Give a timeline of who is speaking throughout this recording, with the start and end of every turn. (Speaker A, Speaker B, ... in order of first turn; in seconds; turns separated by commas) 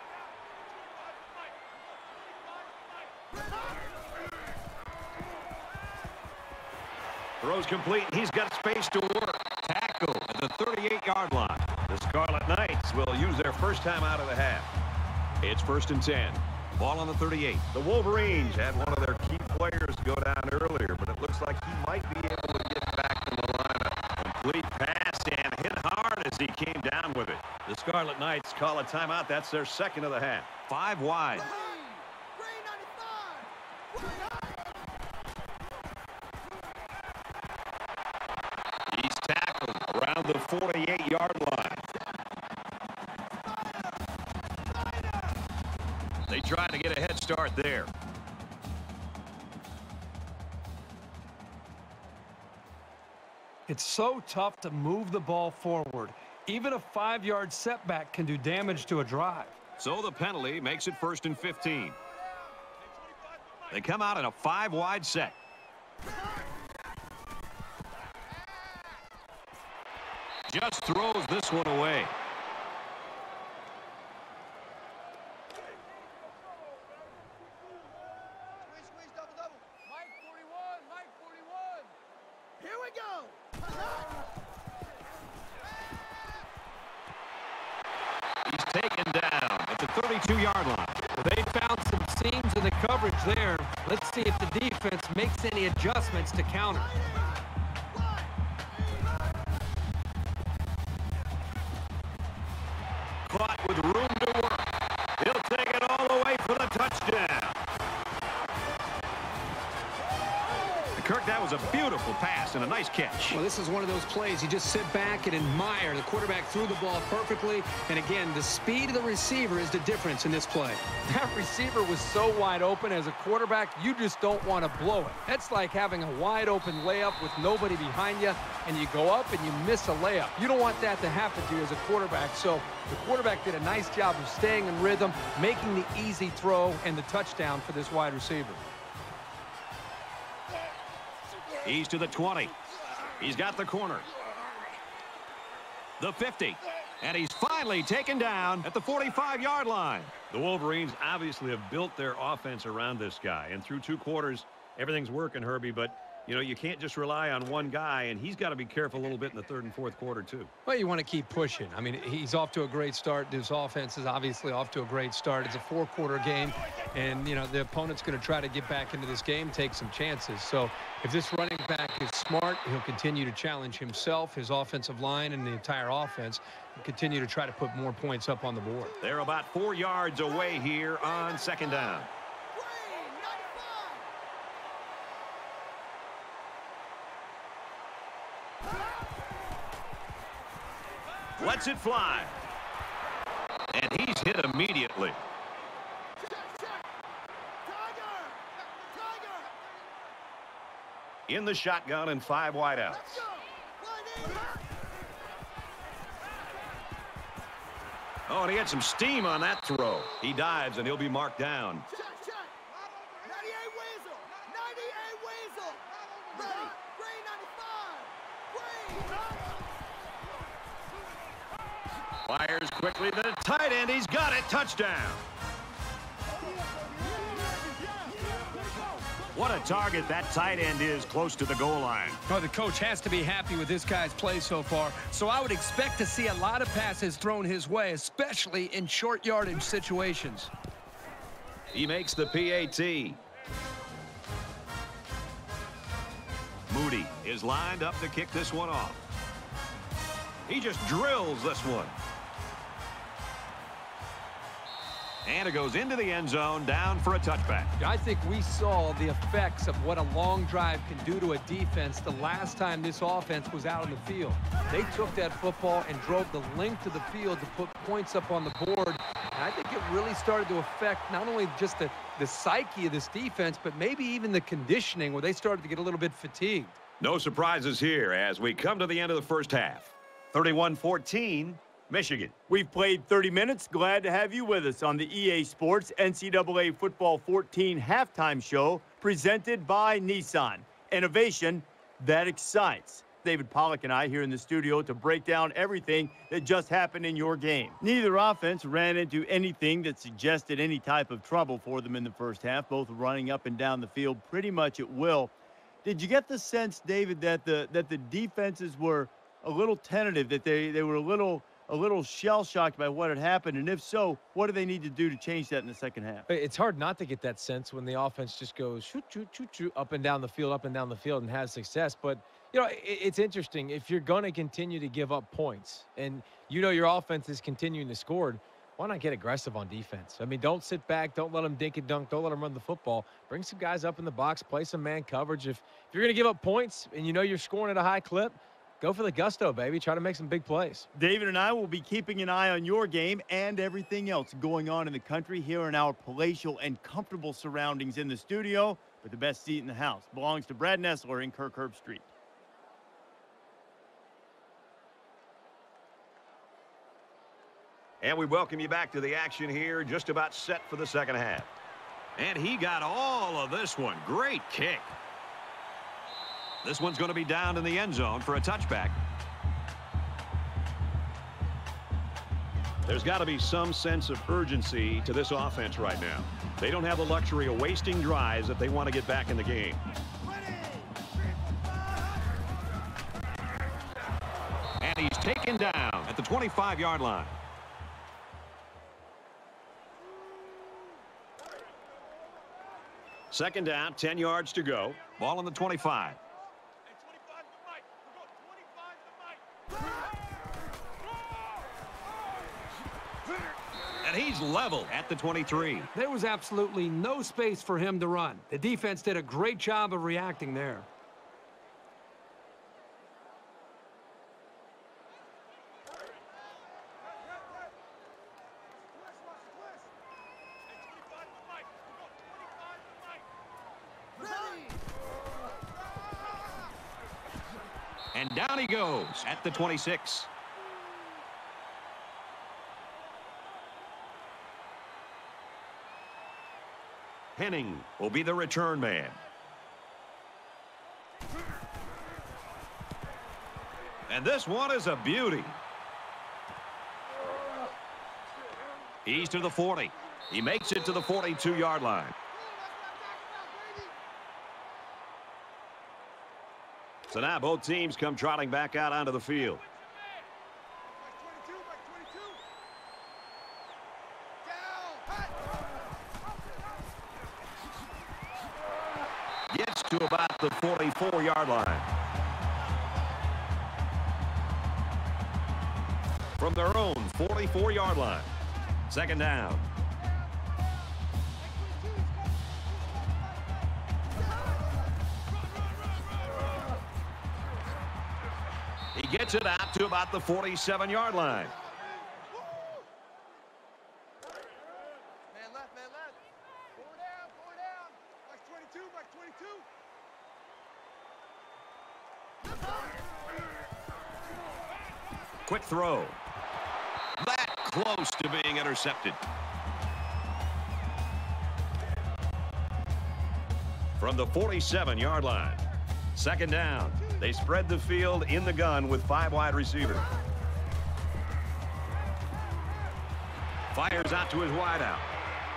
Speaker A: 7.4-14.7, Speaker A: 15.4-31.5, Speaker B: 31.4-34.7, Speaker A: 38.9-41.9, Speaker B: 41.9-42.2, Speaker B: 43.4-44.0, Speaker B: 44.5-45.4, Speaker A: 46.3-47.9, Speaker C: 53.7-59.5, Speaker A: 59.8-62.0, Speaker A: 63.7-65.4, Speaker A: 70.5-72.2, Speaker B: 78.7-79.6, Speaker B: 82.6-84.1, Speaker A: 88.5-91.0, Speaker C: 91.1-97.0, Speaker B: 96.7-99.5, Speaker A: 103.2-107.6, Speaker A: 110.9-113.4, Speaker C: 113.3-138.7, Speaker A: 141.6-142.6, Speaker A: 143.2-144.1, Speaker A: 146.0-160.5, Speaker C: 160.7-178.9, Speaker A: 179.0-182.1, Speaker B: 182.5-184.1, Speaker A: 191.4-192.4, Speaker A: 193.7-195.2, Speaker B: 196.2-196.9, Speaker B: 197.7-199.6, Speaker A: 201.3-203.3, Speaker B: 202.9-204.7, Speaker A: 208.3-211.9, Speaker B: 211.9-219.5, Speaker A: 222.3-225.2, Speaker B: 227.0-229.1, Speaker A: 229.3-232.2, Speaker C: 232.3-240.5, Speaker A: 241.7-243.2, Speaker A: 246.7-249.1, Speaker A: 250.5-252.0, Speaker A: 255.2-257.7, Speaker C: 257.8-276.8, Speaker A: 277.0-282.3, Speaker D: 282.5-305.3, Speaker D: 305.9-316.3, Speaker E: 316.3-340.9, Speaker D: 340.9-352.1, Speaker A: 358.0-361.5, Speaker A: 362.2-364.9, Speaker A: 366.6-369.0, Speaker A: 372.9-379.8, Speaker B: 380.4-381.1, Speaker A: 384.8-387.4, Speaker A: 393.3-396.2, Speaker A: 404.0-405.9, Speaker C: 405.9-410.9, Speaker B: 424.2-424.8, Speaker A: 428.1-430.3, Speaker A: 437.4-439.2, Speaker A: 444.1-445.6, Speaker A: 449.1-452.2, Speaker B: 452.5-453.9, Speaker A: 457.1-459.6, Speaker B: 461.2-462.1, Speaker B: 464.5-465.1, Speaker A: 469.5-471.9, Speaker A: 476.4-478.3, Speaker A: 478.9-479.6, Speaker B: 481.7-482.9, Speaker A: 488.9-491.6, Speaker B: 495.6-496.1, Speaker A: 505.5-506.2, Speaker A: 507.2-509.2, Speaker A: 514.0-515.6, Speaker A: 516.1-520.1, Speaker A: 523.7-525.1